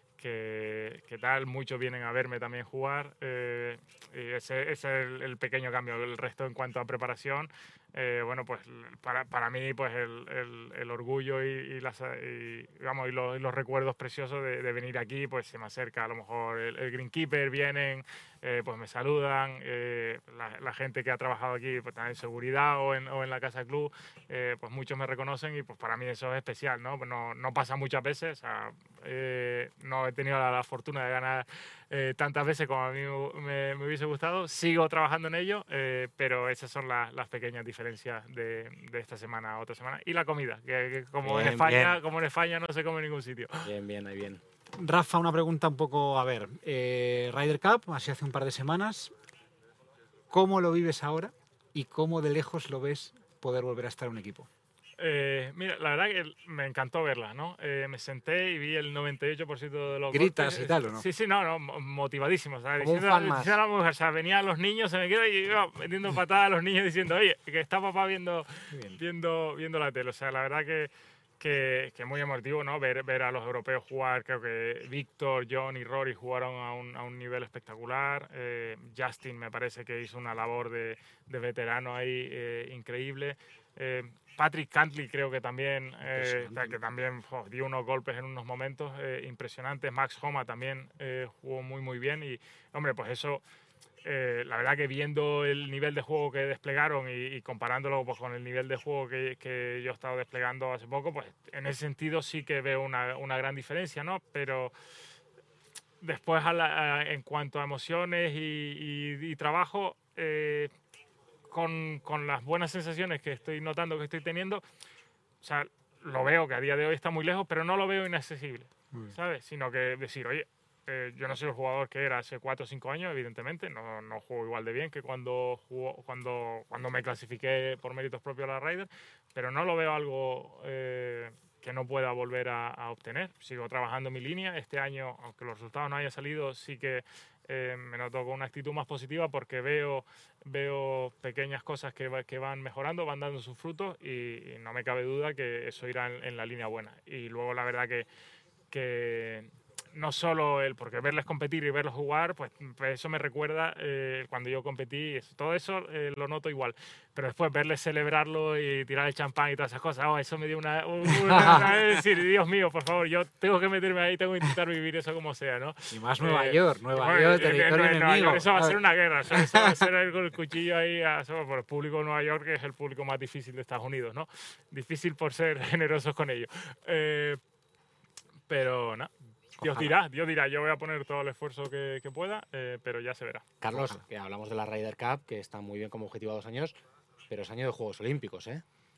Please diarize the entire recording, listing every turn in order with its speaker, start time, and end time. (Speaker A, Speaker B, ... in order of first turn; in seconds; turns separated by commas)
Speaker A: 0.2-43.7, Speaker B: 41.2-42.0, Speaker B: 43.6-44.4, Speaker C: 44.8-49.1, Speaker C: 50.3-54.5, Speaker A: 55.0-93.4, Speaker C: 60.1-61.1, Speaker B: 62.8-63.6, Speaker C: 68.7-69.0, Speaker C: 86.2-86.8, Speaker A: 94.0-104.7, Speaker A: 106.0-110.7, Speaker A: 111.5-114.6, Speaker A: 115.4-148.1, Speaker A: 148.7-177.4, Speaker C: 165.9-168.8, Speaker C: 169.3-169.9, Speaker A: 178.5-179.1, Speaker A: 179.6-183.4, Speaker B: 179.6-179.9, Speaker B: 183.6-186.8, Speaker C: 183.7-184.0, Speaker B: 187.3-188.6